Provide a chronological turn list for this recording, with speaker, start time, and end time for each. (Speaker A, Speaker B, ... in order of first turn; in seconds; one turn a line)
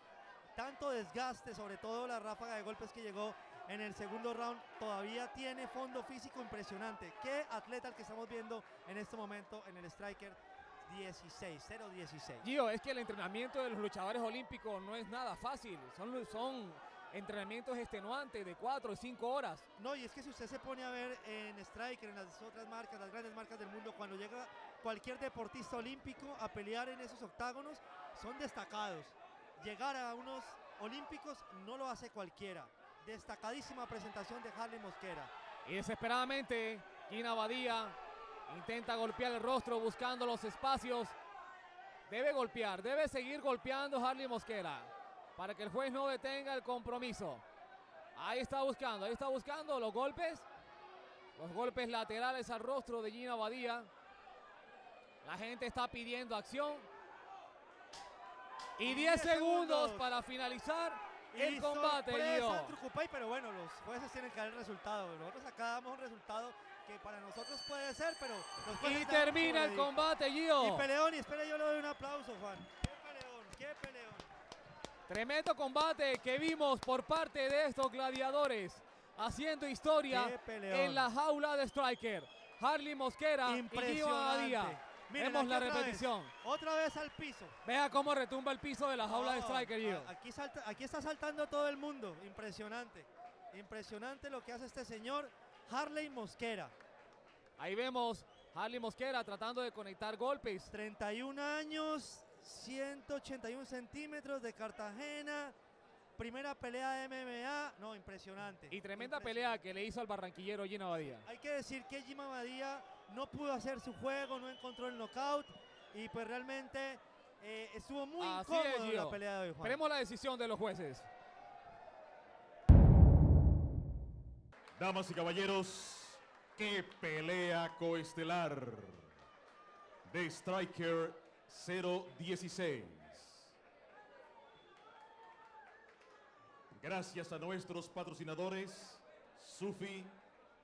Speaker A: 0.6-12.4
Speaker B: 12.4-19.7
Speaker A: 19.8-35.3
Speaker B: 35.6-38.0
Speaker B: 38.5-41.2
Speaker B: 42.1-47.4
Speaker B: 48.2-50.5
Speaker B: 51.4-53.9
Speaker B: 55.2-56.9
Speaker B: 58.8-62.8
Speaker A: 58.8-60.1
Speaker A: 61.3-69.9
Speaker B: 68.8-70.9
Speaker A: 70.6-74.3
Speaker B: 75.1-86.3
Speaker A: 80.1-81.1
Speaker A: 83.5-87.5
Speaker B: 87.7-90.1
Speaker A: 89.0-96.7
Speaker B: 97.6-100.7
Speaker A: 100.7-105.6
Speaker A: 106.2-109.5
Speaker B: 108.7-111.3
Speaker A: 111.1-119.8
Speaker B: 118.2-121.1
Speaker C: 124.8-129.1
Speaker C: 130.1-133.5
Speaker C: 136.7-140.2